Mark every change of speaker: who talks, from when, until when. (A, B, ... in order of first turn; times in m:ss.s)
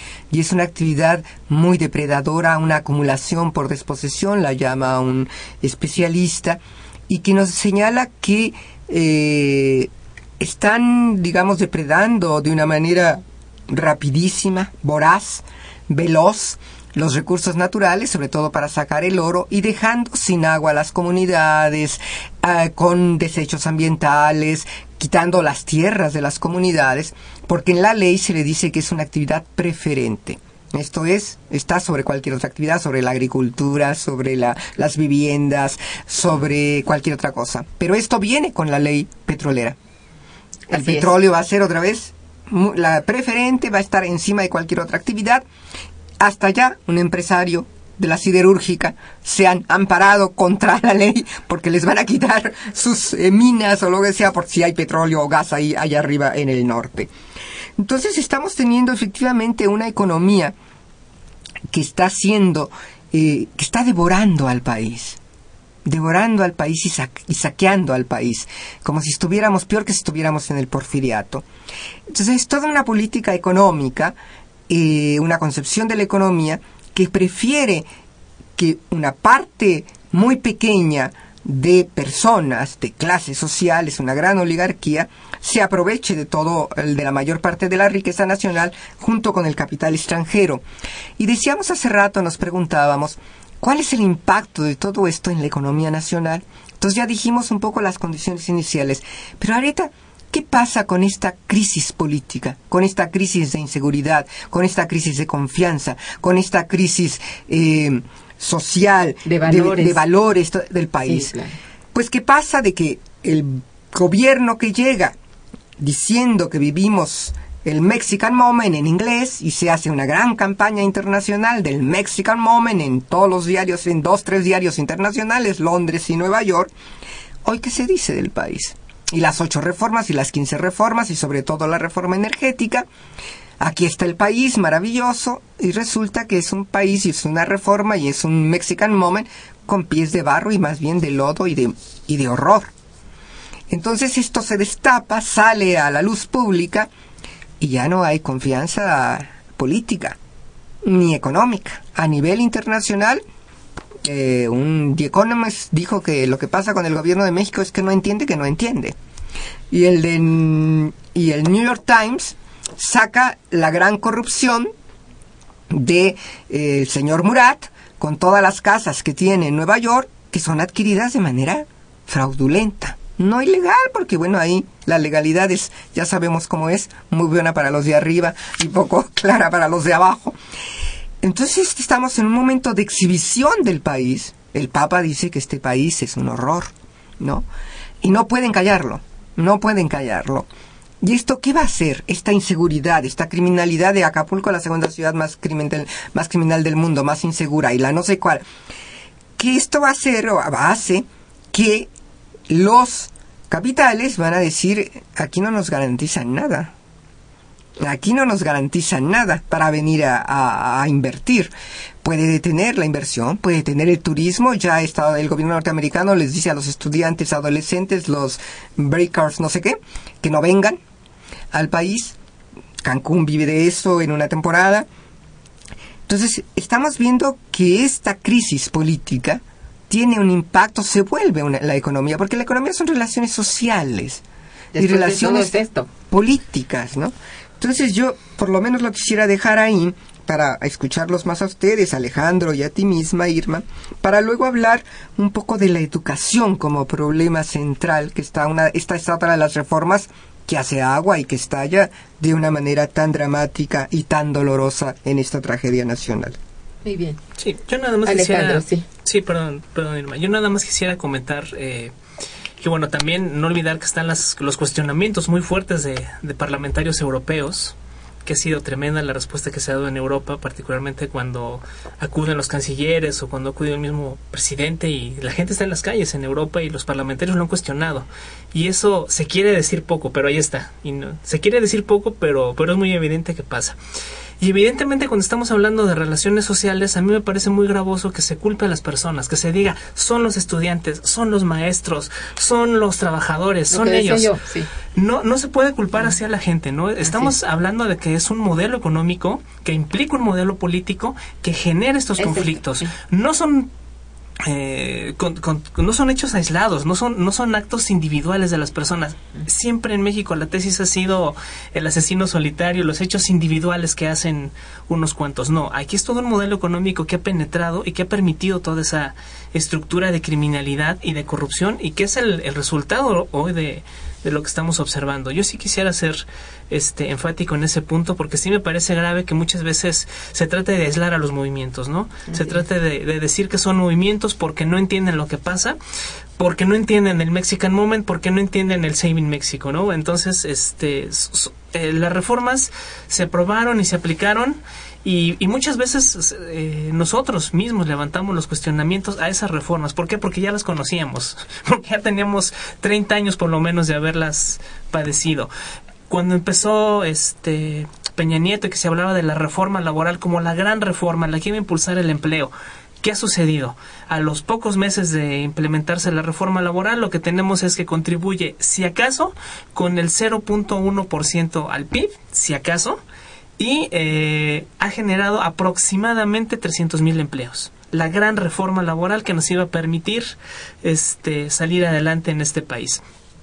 0:00.3-0:39.8 A
0:40.7-0:45.4 A
0:40.7-0:41.1 B
0:46.2-0:57.1 A
0:57.8-1:00.6 A
1:01.7-1:05.2 A
1:05.9-1:11.4 A
1:12.1-1:14.2 A
1:14.7-1:17.9 A
1:18.6-1:30.6 A
1:31.2-1:51.4 A
1:49.2-1:50.0 B
1:51.0-1:51.6 B
1:51.9-1:55.2 A
1:55.8-2:06.7 A
2:07.4-2:12.9 A
2:13.6-2:22.7 A
2:23.7-2:26.9 A
2:27.6-2:30.2 A
2:30.8-2:33.2 A
2:34.0-2:39.0 A
2:39.7-2:44.7 A
2:45.7-3:00.4 A
3:01.2-3:07.5 A
3:08.0-3:10.5 A
3:11.0-3:18.4 A
3:19.4-3:21.9 A
3:22.5-3:26.7 A
3:27.8-3:31.5 A
3:32.0-3:40.8 A
3:41.5-3:42.2 A
3:42.8-3:44.9 A
3:46.1-3:54.2 A
3:54.7-3:55.9 B
3:54.8-3:55.6 A
3:56.1-4:16.4 A
4:16.8-4:17.2 B
4:17.4-4:21.9 C
4:18.1-4:18.8 B
4:22.6-4:43.8 C
4:44.4-4:54.3 C
4:53.7-4:54.7 B
4:55.0-5:03.7 C
4:57.0-4:57.3 B
5:02.2-5:02.9 B
5:04.4-5:35.8 C
5:32.3-5:32.6 B
5:36.4-5:55.5 C
5:56.1-6:13.0 C
6:13.6-6:23.0 C